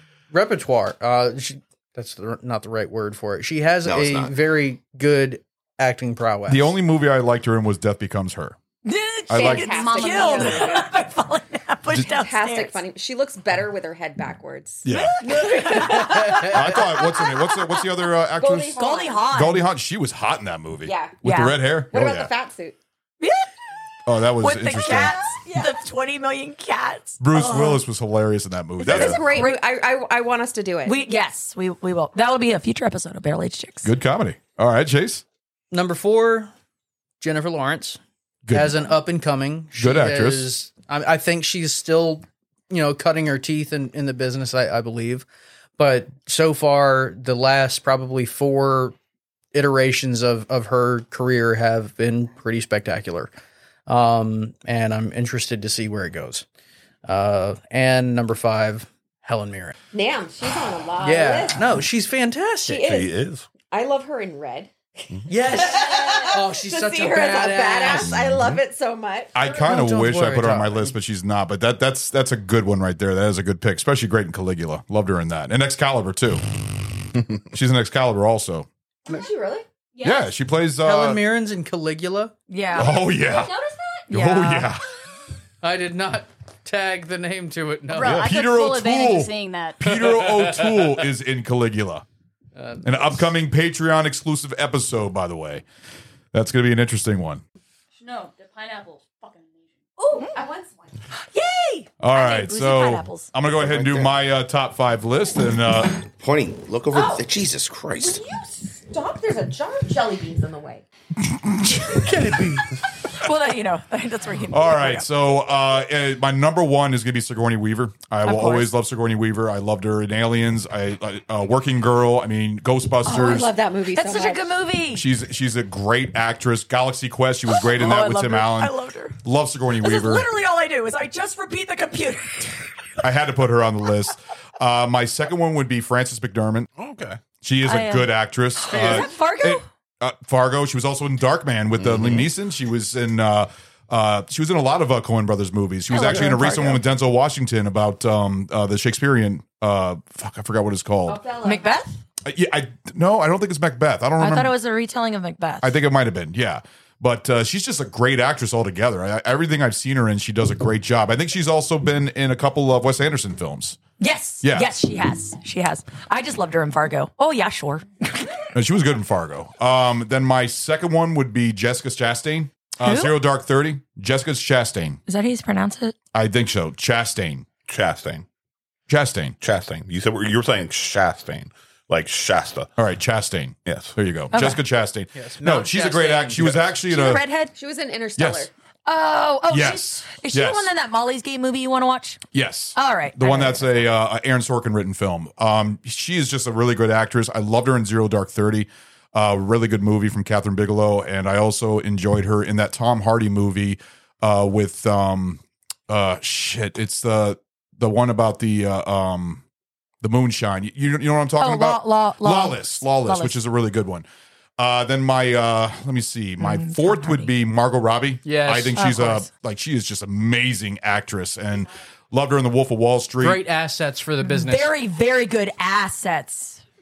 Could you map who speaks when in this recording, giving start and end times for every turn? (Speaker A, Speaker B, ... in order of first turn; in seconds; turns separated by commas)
Speaker A: 0.3-6.8, Speaker B: 3.8-4.3, Speaker C: 6.5-8.6, Speaker D: 8.8-12.8, Speaker C: 9.3-9.9, Speaker E: 9.3-10.9, Speaker F: 9.7-10.7, Speaker E: 12.0-17.1, Speaker C: 14.8-15.2, Speaker D: 15.2-17.6, Speaker A: 16.0-16.6, Speaker C: 16.4-18.7, Speaker E: 18.3-19.3, Speaker D: 18.7-19.7, Speaker C: 19.3-22.3, Speaker E: 20.8-21.2, Speaker D: 21.2-21.6, Speaker E: 21.9-22.8, Speaker D: 23.2-23.5, Speaker C: 24.1-25.4, Speaker D: 24.4-27.8, Speaker C: 27.2-29.3, Speaker E: 28.8-31.0, Speaker D: 28.9-29.6, Speaker D: 30.9-33.9, Speaker C: 33.8-35.2, Speaker A: 35.7-36.5, Speaker A: 37.2-45.3, Speaker C: 38.5-38.8, Speaker C: 39.8-40.5, Speaker A: 45.8-49.0, Speaker A: 49.5-53.3, Speaker A: 53.9-56.5, Speaker A: 57.0-59.8, Speaker E: 59.9-61.7, Speaker A: 61.0-62.9, Speaker E: 62.7-63.1, Speaker G: 62.8-63.5, Speaker E: 63.7-69.5, Speaker A: 65.3-68.2, Speaker G: 68.1-68.6, Speaker C: 69.3-76.4, Speaker A: 69.5-70.9, Speaker C: 77.3-78.7, Speaker E: 79.1-79.7, Speaker F: 80.0-80.3, Speaker C: 80.0-81.2, Speaker A: 80.8-82.3, Speaker D: 82.5-83.1, Speaker C: 82.8-83.6, Speaker F: 83.2-84.0, Speaker D: 84.1-84.7, Speaker C: 84.1-84.9, Speaker A: 85.6-88.2, Speaker F: 87.9-89.9, Speaker C: 88.0-92.0, Speaker A: 89.8-91.0, Speaker A: 92.5-93.3, Speaker C: 92.8-95.6, Speaker C: 96.3-97.4, Speaker F: 98.0-99.7, Speaker E: 100.0-101.0, Speaker D: 101.3-103.3, Speaker C: 102.0-106.1, Speaker B: 103.5-104.2, Speaker B: 106.2-108.2, Speaker E: 106.9-107.2, Speaker E: 108.0-110.8, Speaker C: 111.3-112.6, Speaker D: 113.2-115.1, Speaker C: 114.5-123.5, Speaker D: 118.2-118.7, Speaker E: 123.0-124.6, Speaker D: 123.1-123.4, Speaker D: 123.9-125.1, Speaker C: 124.9-130.3, Speaker D: 127.5-129.2, Speaker D: 129.8-132.6, Speaker C: 133.0-136.7, Speaker G: 136.8-137.2, Speaker C: 137.4-151.2, Speaker D: 137.6-139.6, Speaker G: 141.8-142.2, Speaker D: 145.9-146.8, Speaker E: 151.1-151.8, Speaker D: 151.4-152.0, Speaker C: 152.2-154.5, Speaker D: 154.2-155.8, Speaker C: 155.6-163.8, Speaker D: 164.0-168.4, Speaker C: 164.4-164.8, Speaker C: 168.5-175.0, Speaker D: 172.8-173.2, Speaker D: 175.1-175.9, Speaker C: 176.1-177.5, Speaker G: 177.7-178.2, Speaker C: 178.9-179.3, Speaker G: 179.4-182.7, Speaker C: 182.8-187.3, Speaker G: 183.7-183.9, Speaker D: 184.3-184.6, Speaker A: 185.1-186.8, Speaker E: 186.9-188.5, Speaker D: 186.9-187.5, Speaker C: 188.2-188.5, Speaker D: 188.9-192.2, Speaker C: 189.5-190.7, Speaker C: 192.3-209.4, Speaker D: 192.8-193.7, Speaker C: 210.0-214.1, Speaker D: 211.4-213.4, Speaker C: 214.6-223.4, Speaker D: 216.4-217.3, Speaker A: 218.2-218.9, Speaker D: 218.8-219.3, Speaker A: 223.2-224.7, Speaker D: 224.2-226.6